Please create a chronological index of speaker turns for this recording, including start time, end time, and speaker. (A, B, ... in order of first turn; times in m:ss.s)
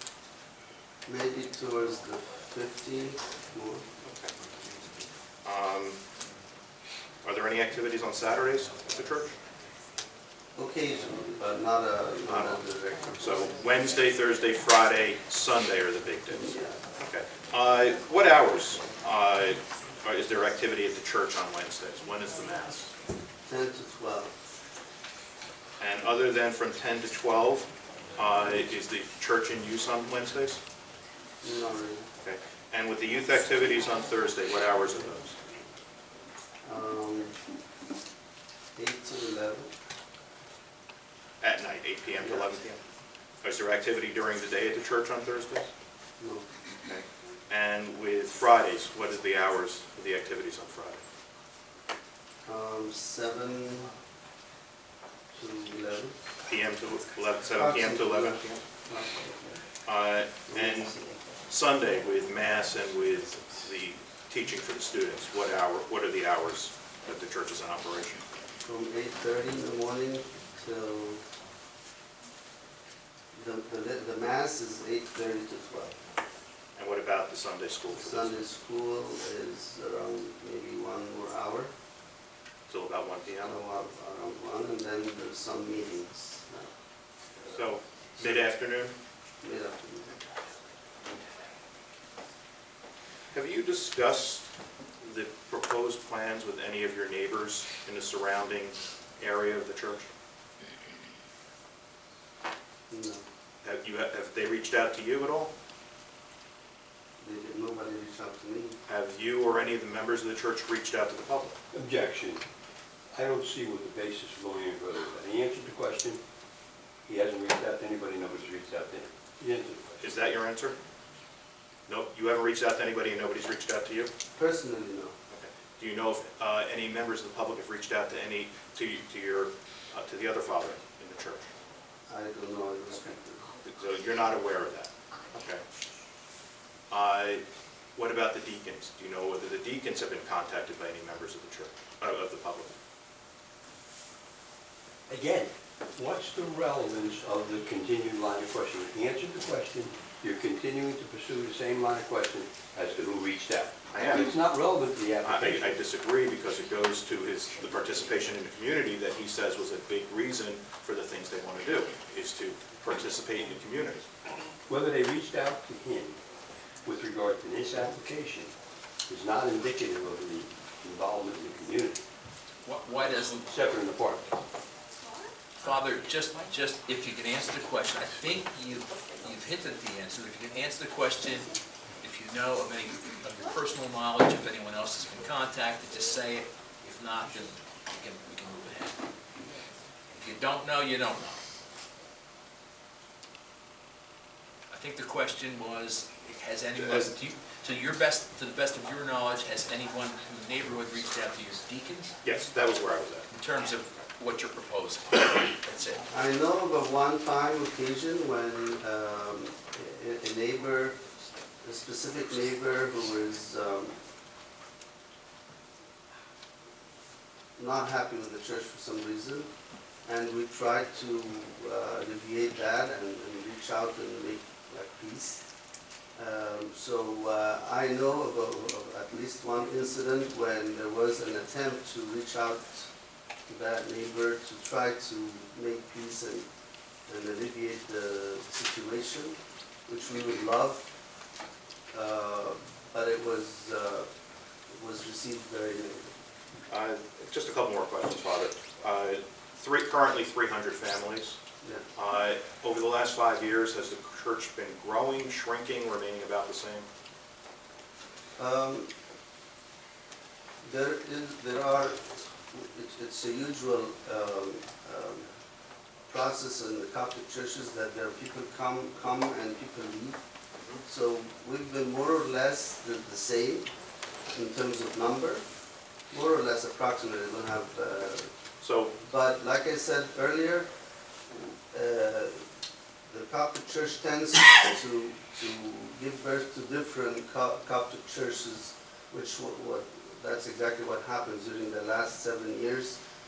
0:01.0-0:03.8 A
0:04.0-0:04.3 B
0:05.4-0:06.0 B
0:07.2-0:09.3 B
0:10.6-0:13.5 A
0:12.3-0:12.6 B
0:13.2-0:22.9 B
0:16.4-0:16.8 A
0:23.4-0:24.3 A
0:25.8-0:30.6 B
0:31.4-0:32.1 A
0:32.2-0:35.3 B
0:36.6-0:37.3 A
0:38.7-0:39.7 A
0:41.4-0:42.8 B
0:42.2-0:42.5 A
0:43.4-0:45.7 B
0:46.2-0:46.5 A
0:46.8-0:51.0 B
0:52.4-0:53.9 A
0:55.3-0:56.2 A
0:56.5-0:58.6 B
0:57.6-0:59.6 A
0:59.8-1:00.9 B
1:00.5-1:01.2 A
1:01.5-1:08.2 B
1:08.6-1:11.2 A
1:13.3-1:16.0 A
1:16.8-1:18.3 B
1:17.9-1:21.7 A
1:22.7-1:23.6 B
1:23.4-1:26.7 A
1:27.5-1:29.0 B
1:29.4-1:30.1 A
1:33.3-1:34.5 B
1:35.0-1:40.1 B
1:42.9-1:43.2 A
1:43.6-1:45.5 B
1:47.2-1:48.8 A
1:48.9-1:51.6 B
1:51.7-1:52.4 C
1:53.1-1:56.2 C
1:57.1-1:59.9 C
2:00.0-2:00.8 B
2:01.9-2:04.1 B
2:04.4-2:05.1 A
2:05.3-2:11.4 B
2:12.1-2:13.5 A
2:13.6-2:15.6 B
2:16.9-2:17.4 B
2:18.0-2:22.8 B
2:25.1-2:35.8 C
2:33.9-2:34.3 B
2:35.2-2:44.0 B
2:44.7-2:46.2 C
2:46.8-2:48.5 C
2:49.1-2:52.0 C
2:52.6-2:53.6 D
2:53.4-2:54.3 C
2:55.6-3:01.5 D
3:02.0-3:09.0 D
3:10.1-3:11.4 D
3:14.7-3:22.1 D
3:16.8-3:17.1 B
3:22.2-3:23.3 B
3:23.3-3:26.0 D
3:26.1-3:31.0 A
3:31.6-3:34.0 A
3:37.6-3:39.5 A
3:40.0-3:45.4 A
3:46.2-3:52.9 A
3:53.5-3:56.4 A
3:57.1-4:00.9 A
4:01.9-4:04.1 A
4:04.7-4:06.1 A
4:06.7-4:11.4 B
4:12.0-4:16.9 B
4:18.4-4:18.9 A
4:20.6-4:25.3 A
4:26.1-4:30.2 A
4:30.8-4:33.7 A
4:34.3-4:35.4 A
4:36.1-4:38.3 A
4:38.6-4:38.9 B
4:39.0-4:40.7 A
4:41.3-4:42.4 A
4:43.1-4:53.0 A